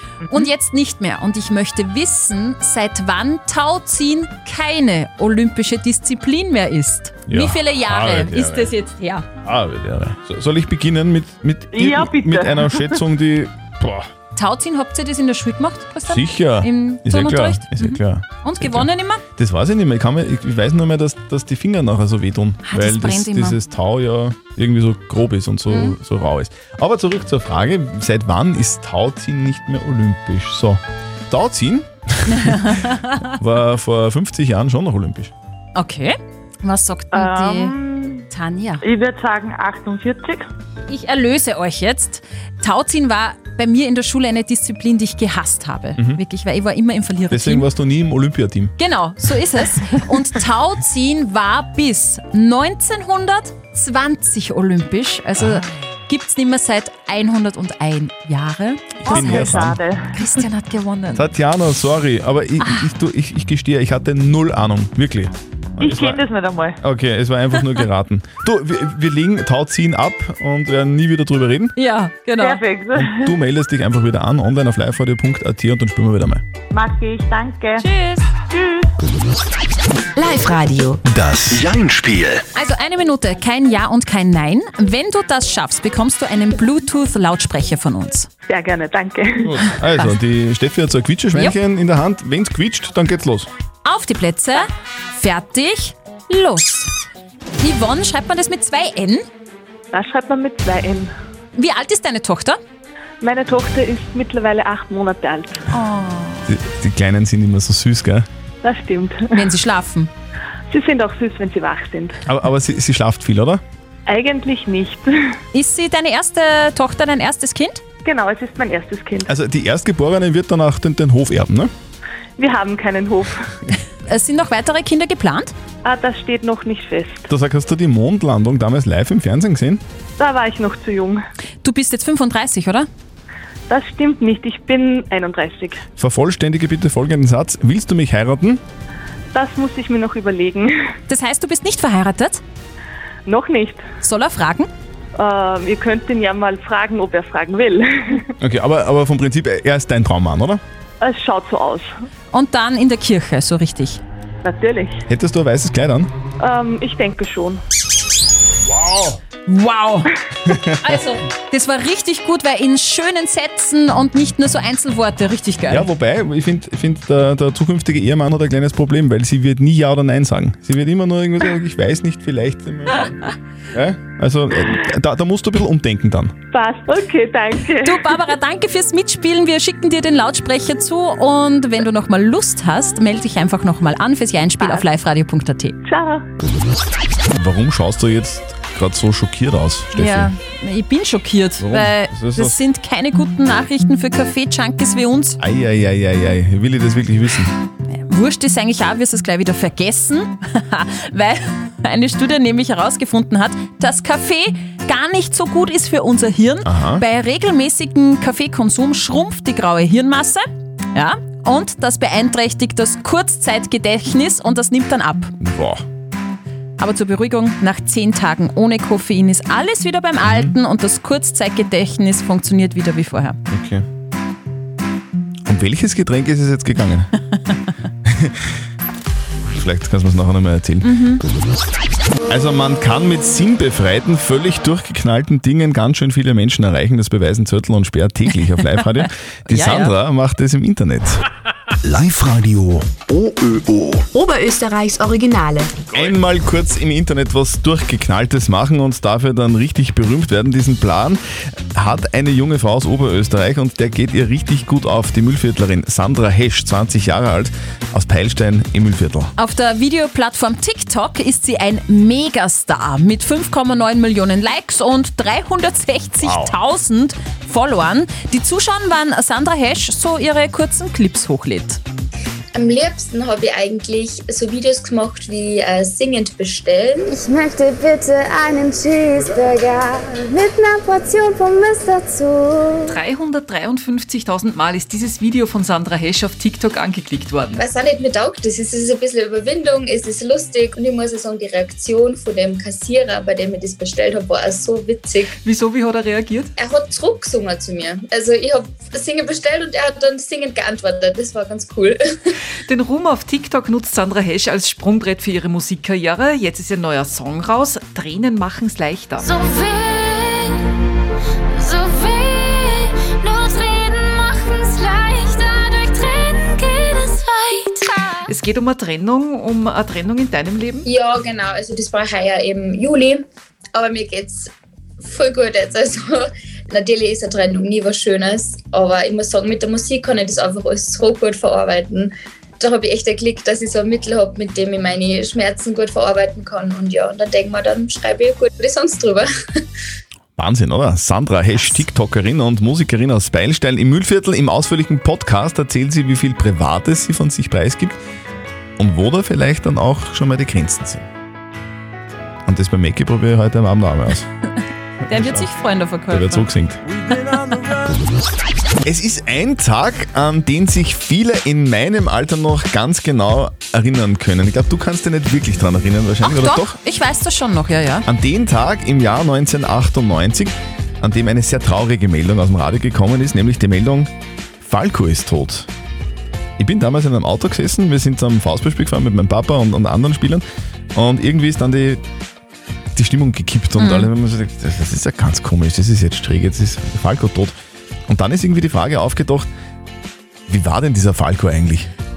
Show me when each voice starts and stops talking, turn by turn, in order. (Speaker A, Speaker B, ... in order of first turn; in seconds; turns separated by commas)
Speaker A: 0.3-9.2, Speaker B: 7.3-8.7, Speaker B: 9.4-14.1, Speaker A: 14.3-19.2, Speaker B: 16.1-32.8, Speaker A: 22.6-23.6, Speaker A: 25.7-25.9, Speaker A: 32.3-33.3, Speaker B: 33.3-35.3, Speaker A: 35.7-37.7, Speaker A: 38.3-38.8, Speaker A: 40.9-47.6, Speaker B: 46.0-46.2, Speaker B: 47.3-48.7, Speaker A: 48.8-59.5, Speaker B: 59.0-59.8, Speaker C: 59.3-59.7, Speaker A: 60.2-61.2, Speaker B: 61.1-66.2, Speaker B: 66.8-71.7, Speaker A: 71.8-72.6, Speaker B: 72.9-76.4, Speaker A: 77.8-78.2, Speaker D: 80.2-81.0, Speaker E: 81.1-82.4, Speaker A: 82.5-88.3, Speaker F: 88.5-89.4, Speaker B: 89.4-93.5, Speaker A: 93.8-96.9, Speaker A: 97.6-99.2, Speaker F: 99.9-101.1, Speaker A: 101.5-102.6, Speaker F: 103.2-105.6, Speaker B: 106.5-108.3, Speaker F: 108.6-109.2, Speaker A: 109.3-110.1, Speaker F: 110.7-112.1, Speaker B: 112.2-113.6, Speaker F: 114.1-115.1, Speaker A: 115.5-117.8, Speaker F: 118.0-119.3, Speaker B: 119.2-121.7, Speaker F: 122.4-123.3, Speaker A: 124.1-125.5, Speaker F: 125.8-127.2, Speaker B: 127.3-129.8, Speaker F: 130.2-131.2, Speaker A: 131.6-132.9, Speaker F: 133.7-135.8, Speaker B: 136.0-138.6, Speaker F: 139.3-140.7, Speaker A: 141.1-142.4, Speaker F: 143.2-143.8, Speaker A: 144.0-144.7, Speaker F: 145.2-148.2, Speaker B: 148.4-150.6, Speaker F: 151.0-151.9, Speaker A: 152.3-154.0, Speaker F: 154.4-155.0, Speaker B: 155.1-156.1, Speaker F: 156.4-157.6, Speaker B: 158.7-159.2, Speaker A: 159.5-160.1, Speaker B: 160.5-160.9, Speaker A: 160.8-165.9, Speaker B: 165.7-176.3, Speaker F: 176.5-178.0, Speaker A: 177.8-185.8, Speaker F: 185.8-186.2, Speaker B: 187.3-190.3, Speaker A: 189.9-195.4, Speaker B: 191.6-192.6, Speaker B: 195.4-197.5, Speaker A: 198.0-210.4, Speaker B: 206.7-207.0, Speaker A: 210.9-215.3, Speaker B: 215.4-215.8, Speaker A: 216.8-223.4, Speaker B: 220.2-220.5, Speaker B: 223.5-223.8, Speaker B: 225.4-227.1, Speaker B: 228.0-228.4, Speaker B: 229.5-230.9, Speaker A: 230.8-231.2, Speaker B: 232.3-241.2, Speaker A: 239.5-239.9, Speaker E: 241.8-244.0, Speaker D: 244.1-245.7, Speaker B: 245.9-259.3, Speaker A: 259.4-271.8, Speaker B: 266.2-266.5, Speaker G: 272.5-277.2, Speaker H: 277.1-283.0, Speaker C: 282.9-287.6, Speaker G: 287.6-295.3, Speaker C: 295.4-296.5, Speaker G: 296.6-302.3, Speaker C: 302.6-309.3, Speaker C: 318.3-320.9, Speaker G: 320.8-339.3, Speaker B: 340.4-348.0, Speaker B: 348.8-351.1, Speaker B: 352.4-354.3, Speaker B: 355.0-355.5, Speaker A: 355.1-356.4, Speaker B: 356.1-356.8, Speaker B: 358.8-366.8, Speaker A: 366.2-368.0, Speaker B: 368.1-375.7, Speaker B: 376.6-382.0, Speaker B: 382.9-387.6, Speaker A: 383.8-384.1, Speaker B: 388.1-389.5, Speaker B: 390.5-391.9